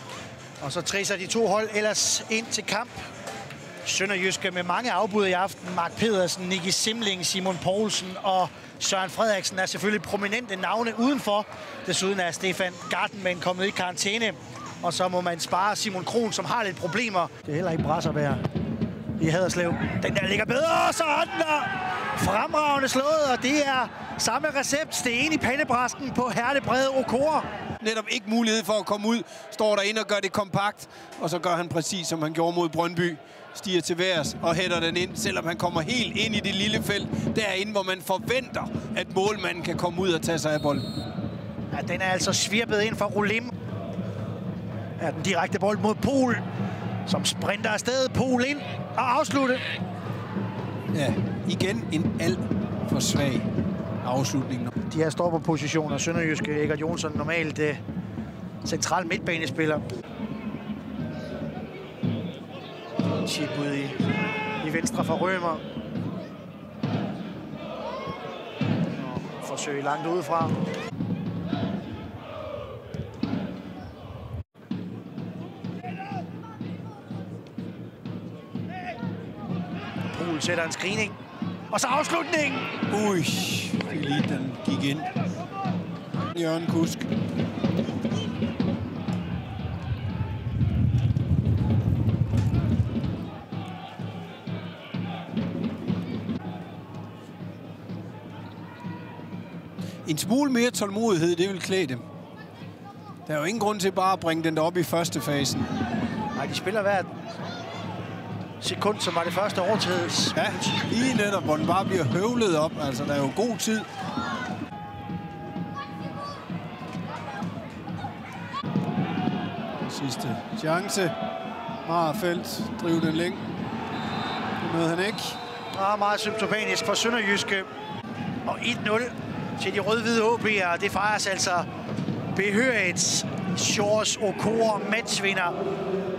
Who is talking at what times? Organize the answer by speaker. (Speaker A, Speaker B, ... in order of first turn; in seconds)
Speaker A: 0.6-3.0, 3.8-18.4, 19.2-27.5, 41.7-43.5, 45.0-46.4, 47.0-49.6, 54.9-57.8, 58.6-59.8, 63.2-64.0, 64.6-65.6, 69.0-70.5, 80.1-81.1, 81.7-82.7, 106.3-107.1, 108.6-110.4, 125.7-127.7, 128.4-131.7, 132.3-135.6
Speaker B: 27.8-40.8, 50.9-53.5, 54.0-54.7, 82.9-85.1, 86.3-87.1, 100.0-102.0, 103.2-105.7, 110.3-113.9, 119.8-121.1, 121.8-123.5, 124.6-125.4